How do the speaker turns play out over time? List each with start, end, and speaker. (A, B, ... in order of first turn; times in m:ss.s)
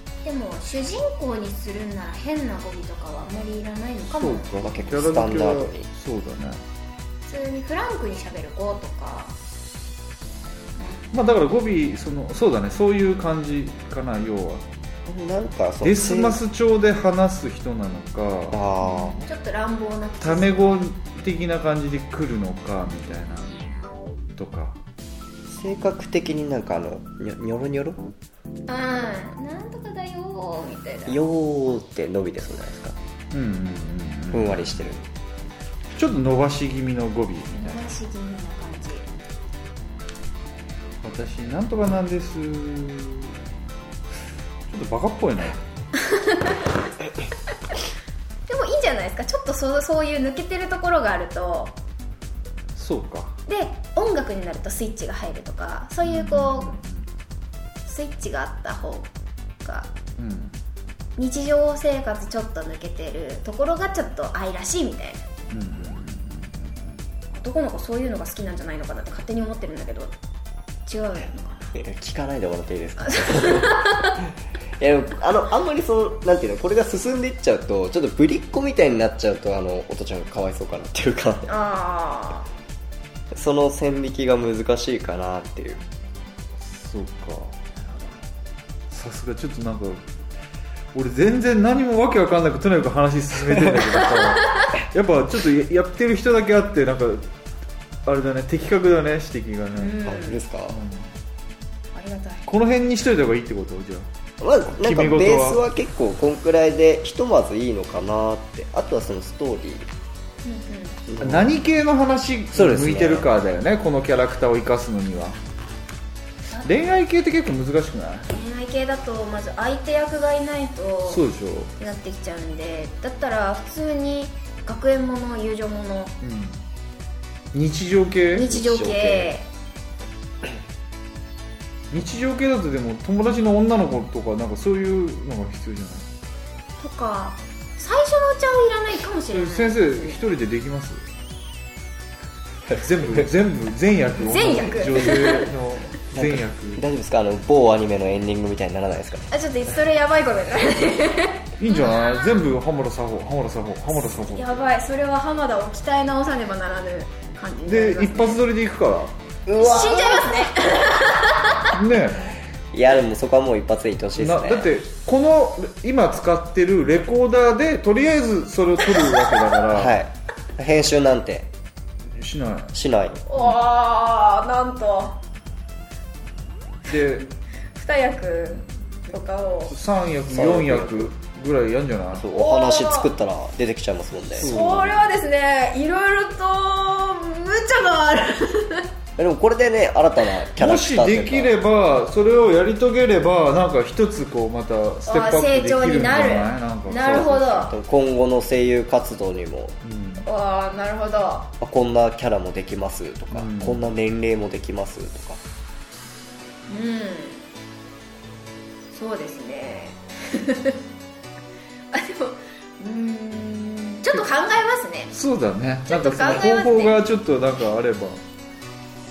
0:00.2-0:04.5 A
0:04.1-0:06.6 B
0:04.6-0:05.9 C
0:07.2-0:09.3 A
0:10.8-0:11.1 A
0:11.1-0:14.6 B
0:15.0-0:16.4 C
0:15.8-0:18.6 B
0:18.5-0:19.2 C
0:18.8-0:20.9 A
0:20.2-0:23.7 B
0:24.4-0:24.8 B
0:25.5-0:28.1 C
0:28.7-0:31.2 A
0:31.0-0:33.0 C
0:33.3-0:34.9 B
0:34.3-0:35.0 C
0:36.0-0:37.8 B
0:37.5-0:39.1 A
0:41.0-0:43.3 B
0:44.7-0:45.6 B
0:46.0-0:46.6 A
0:48.5-0:51.8 A
0:52.8-0:53.4 B
0:53.5-0:56.8 A
0:56.0-0:57.0 B
0:57.8-0:59.1 A
0:59.6-0:59.9 A
1:00.2-1:00.6 B
1:01.2-1:05.2 A
1:05.5-1:06.8 B
1:07.3-1:10.1 A
1:10.8-1:11.7 A
1:11.7-1:21.5 C
1:13.0-1:14.2 A
1:21.5-1:22.5 A
1:23.3-1:25.8 C
1:26.6-1:27.6 B
1:27.7-1:28.2 A
1:28.9-1:30.0 B
1:30.9-1:37.3 B
1:38.0-1:40.0 B
1:39.8-1:40.4 A
1:40.0-1:40.8 C
1:40.7-1:41.1 B
1:41.9-1:42.5 A
1:42.5-1:44.1 B
1:44.4-1:49.9 C
1:44.7-1:45.6 B
1:50.4-1:51.0 A
1:51.1-1:51.5 C
1:51.2-1:55.4 B
1:52.5-1:53.3 C
1:56.5-1:56.9 A
1:56.6-1:58.3 B
1:58.3-2:01.2 A
2:01.1-2:01.7 B
2:01.8-2:06.2 A
2:06.2-2:06.6 B
2:07.5-2:08.5 B
2:08.3-2:09.5 A
2:08.4-2:09.4 C
2:11.9-2:16.1 B
2:16.8-2:20.2 A
2:19.3-2:21.0 B
2:22.7-2:23.2 C
2:22.7-2:26.8 B
2:24.2-2:25.5 A
2:26.1-2:29.2 C
2:29.3-2:32.5 A
2:31.6-2:34.6 B
2:33.9-2:38.4 A
2:37.6-2:39.2 B
2:39.5-2:40.7 C
2:39.5-2:41.8 A
2:41.7-2:42.4 B
2:42.7-2:44.7 C
2:44.2-2:50.0 B
2:49.0-2:49.4 A
2:49.7-2:51.5 C
2:52.2-2:52.8 B
2:52.7-2:53.2 C
2:53.3-2:55.2 A
2:56.9-2:57.3 B
2:57.7-2:59.7 A
2:59.7-3:02.3 B
3:00.3-3:01.1 C
3:02.1-3:04.5 C
3:02.3-3:03.1 A
3:04.4-3:08.9 A
3:04.4-3:05.0 B
3:09.2-3:11.5 C
3:10.6-3:17.7 B
3:15.0-3:17.7 A
3:17.0-3:19.8 C
3:19.8-3:20.2 B
3:20.2-3:21.5 A
3:21.6-3:25.4 C
3:23.3-3:23.8 B
3:26.7-3:27.4 A
3:28.9-3:30.8 A
3:31.9-3:35.1 A
3:35.1-3:38.2 B
3:35.9-3:37.0 A